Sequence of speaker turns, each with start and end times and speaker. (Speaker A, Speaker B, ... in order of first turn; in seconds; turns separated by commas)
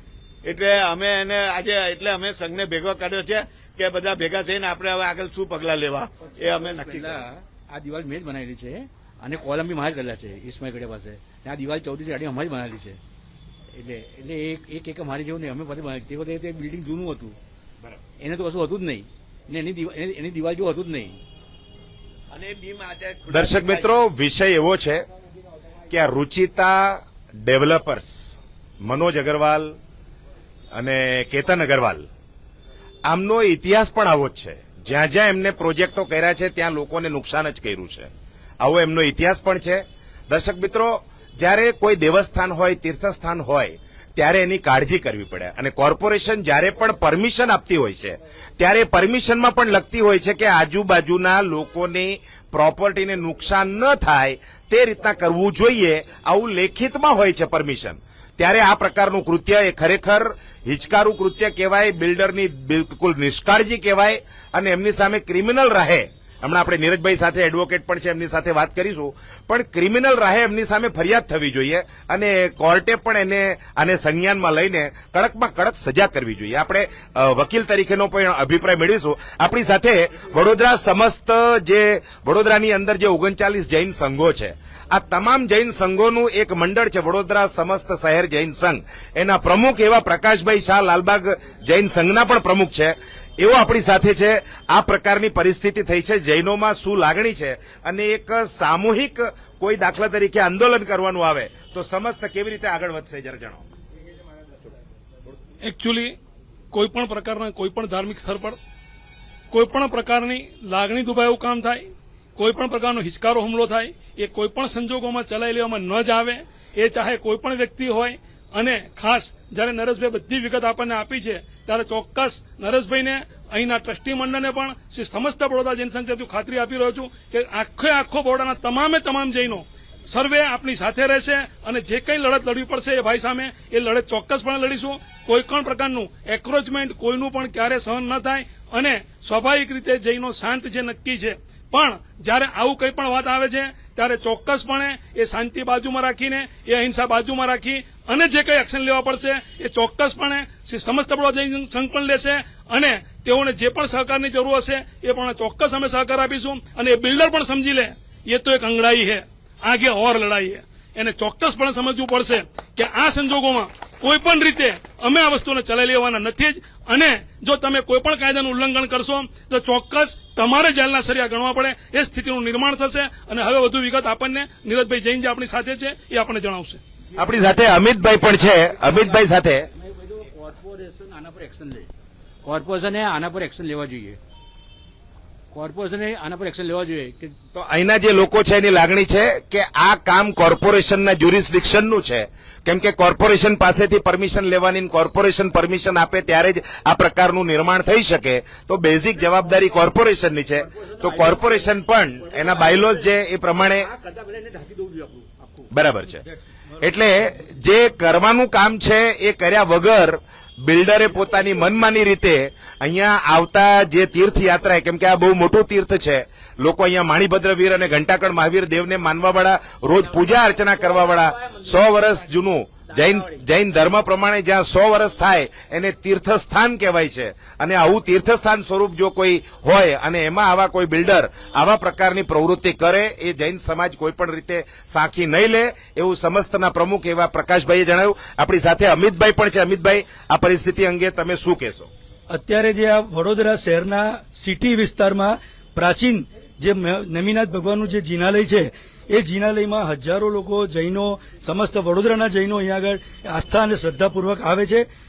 Speaker A: 0.5-7.3, Speaker B: 6.4-13.0, Speaker B: 13.7-17.4, Speaker B: 18.2-21.2, Speaker A: 22.3-24.0, Speaker C: 23.3-25.0, Speaker C: 25.9-29.8, Speaker C: 30.7-32.1, Speaker C: 33.0-38.1, Speaker C: 38.6-103.7, Speaker D: 105.6-106.2, Speaker D: 106.7-108.6, Speaker D: 109.5-111.9, Speaker D: 112.4-176.8, Speaker C: 177.2-179.7, Speaker B: 178.7-181.9, Speaker B: 182.4-184.2, Speaker B: 185.5-187.3, Speaker C: 187.5-203.9, Speaker B: 200.7-205.7, Speaker C: 205.7-206.2, Speaker C: 206.8-241.9, Speaker E: 242.3-254.9